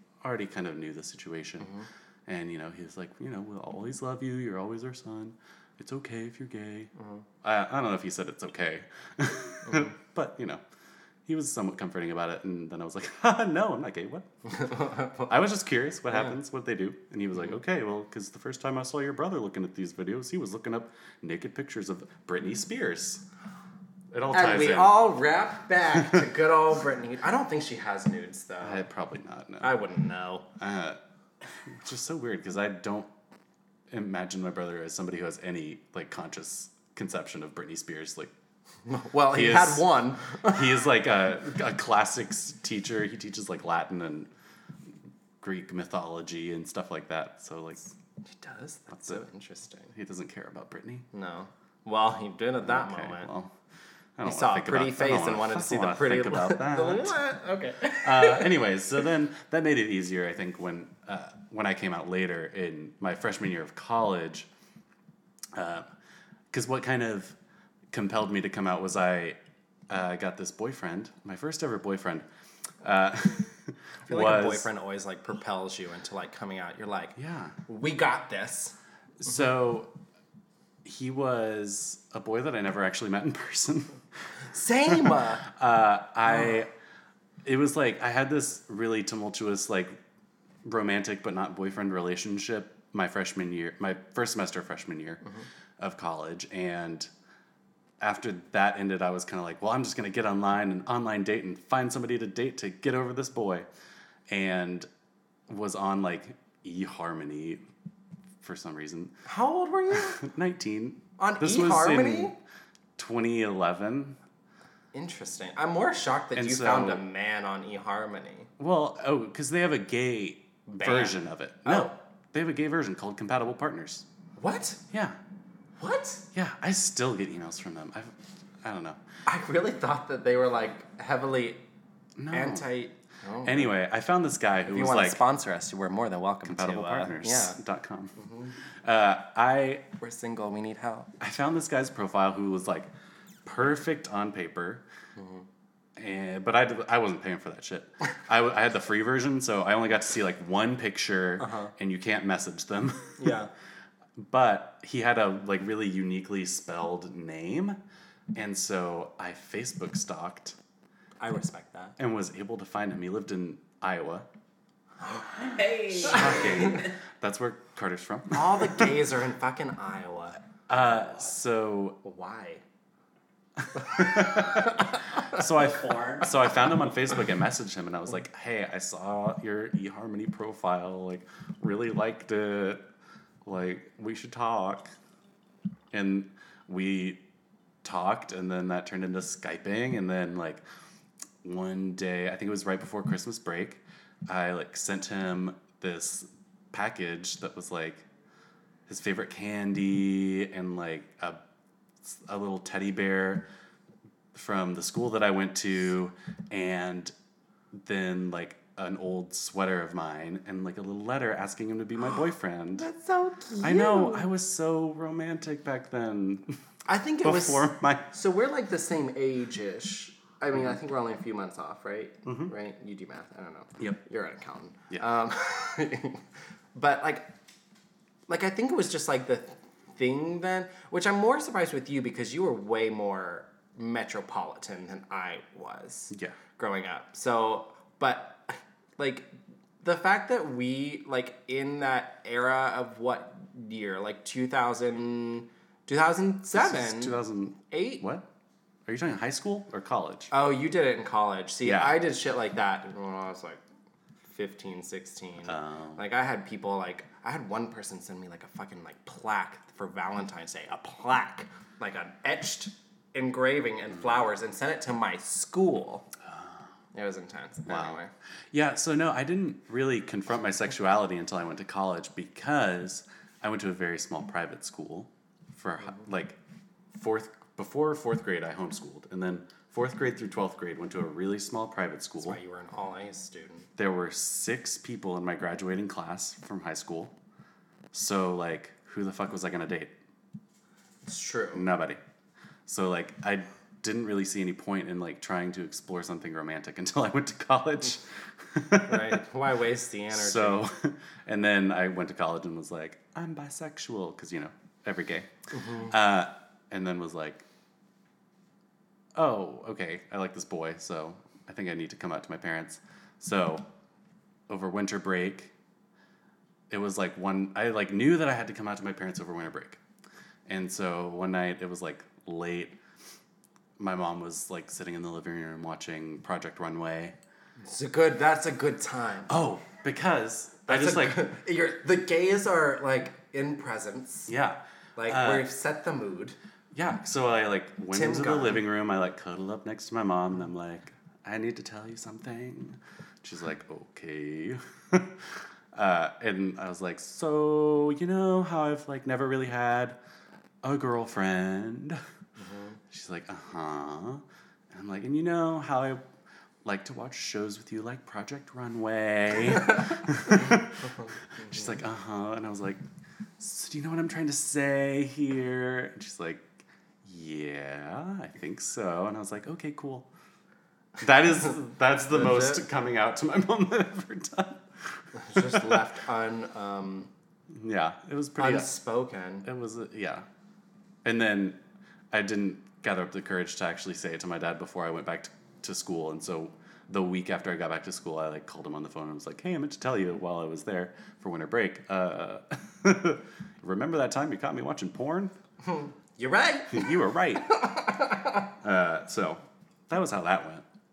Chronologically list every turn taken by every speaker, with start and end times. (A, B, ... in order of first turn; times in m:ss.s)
0:00.2-0:01.7 A
0:02.3-0:06.9 A
0:07.4-0:10.6 A
0:11.3-0:14.3 A
0:14.5-0:15.3 B
0:15.3-0:23.2 A
0:24.1-0:25.0 A
0:24.3-0:28.8 B
0:28.6-0:29.7 A
0:29.6-0:30.5 B
0:30.6-0:31.0 A
0:31.7-0:33.1 A
0:33.9-0:38.3 A
0:38.9-0:40.6 B
0:39.3-0:44.3 A
0:45.4-0:47.9 A
0:48.3-0:49.9 B
0:48.9-0:49.2 A
0:49.9-0:51.1 A
0:51.1-0:53.3 B
0:52.6-0:53.5 A
0:54.2-0:57.2 A
0:54.2-0:58.6 B
0:57.9-1:04.5 A
1:05.5-1:05.9 A
1:06.5-1:07.4 A
1:07.9-1:09.4 A
1:09.9-1:12.2 A
1:12.8-1:14.7 A
1:14.1-1:18.8 B
1:17.2-1:17.6 A
1:19.2-1:19.9 A
1:20.8-1:24.0 A
1:24.5-1:25.4 B
1:24.9-1:26.7 A
1:27.4-1:29.9 A
1:30.6-1:35.2 A
1:35.8-1:37.1 A
1:38.0-1:43.7 A
1:44.3-1:44.9 A
1:45.5-1:47.6 A
1:48.4-1:49.2 A
1:49.3-1:50.2 B
1:50.0-1:52.4 A
1:51.2-1:52.4 B
1:53.0-1:54.2 A
1:54.9-1:58.5 B
1:56.4-1:57.0 A
1:58.6-2:04.1 A
2:00.7-2:02.0 B
2:04.4-2:04.8 B
2:04.9-2:05.2 A
2:05.8-2:06.3 B
2:06.3-2:09.0 A
2:09.3-2:11.6 B
2:12.2-2:12.7 A
2:12.3-2:13.7 B
2:13.4-2:15.2 A
2:14.7-2:17.6 B
2:16.4-2:18.1 A
2:18.2-2:18.5 B
2:18.8-2:19.8 A
2:20.0-2:21.1 B
2:21.2-2:22.9 A
2:23.4-2:24.8 A
2:25.2-2:25.4 B
2:26.0-2:33.4 A
2:31.4-2:31.7 B
2:33.2-2:33.5 B
2:34.2-2:37.8 A
2:38.4-2:40.6 A
2:41.2-2:42.0 B
2:42.0-2:44.3 A
2:45.3-2:46.9 C
2:46.0-2:48.9 A
2:46.3-2:46.8 B
2:48.3-2:50.4 B
2:50.7-2:52.0 A
2:52.0-2:52.6 B
2:53.7-3:02.8 A
2:53.8-2:54.8 B
2:55.6-2:56.8 C
3:03.4-3:04.9 A
3:05.9-3:07.2 A
3:07.8-3:10.6 A
3:11.4-3:18.0 A
3:18.9-3:21.4 A
3:22.0-3:23.4 A
3:24.3-3:27.1 A
3:27.7-3:32.9 A
3:32.8-3:34.3 B
3:33.6-3:36.5 A
3:36.9-3:46.2 B
3:37.2-3:38.1 A
3:42.3-3:42.5 A
3:46.8-3:47.3 B
3:48.3-3:59.3 B
3:56.1-3:56.4 A
3:59.8-4:08.0 B
4:06.5-4:08.2 A
4:08.9-4:10.3 A
4:10.3-4:13.6 B
4:11.6-4:12.0 A
4:14.3-4:26.1 B
4:15.5-4:16.0 A
4:26.3-4:26.6 A
4:26.9-4:28.1 B
4:27.7-4:28.0 A
4:28.5-4:36.4 A
4:36.9-4:42.4 A
4:42.2-4:43.7 B
4:43.8-4:47.1 A
4:47.9-4:49.9 A
4:51.1-4:51.7 B
4:51.5-4:52.0 A
4:52.7-4:59.2 A
4:58.8-5:00.6 B
5:00.1-5:07.4 A
5:05.5-5:05.9 B
5:09.2-5:13.6 A
5:14.5-5:15.5 A
5:16.7-5:19.8 A
5:20.5-5:22.8 A
5:23.8-5:27.2 A
5:27.6-5:29.4 B
5:29.3-5:31.3 A
5:30.7-5:34.3 B
5:34.3-5:35.5 A
5:35.0-5:36.4 B
5:36.7-5:50.0 A
5:37.9-5:38.6 B
5:50.6-5:52.0 A
5:52.4-5:52.8 B
5:52.9-5:56.0 A
5:56.6-6:00.8 A
6:01.4-6:01.6 B
6:01.4-6:02.8 A
6:03.4-6:10.1 A
6:11.0-6:15.8 A
6:12.1-6:12.6 B
6:15.2-6:17.1 B
6:17.5-6:18.7 A
6:18.4-6:19.5 B
6:19.4-6:20.2 A
6:21.0-6:21.6 A
6:22.1-6:35.3 A
6:35.6-6:38.5 B
6:36.7-6:37.5 A
6:38.6-6:40.6 A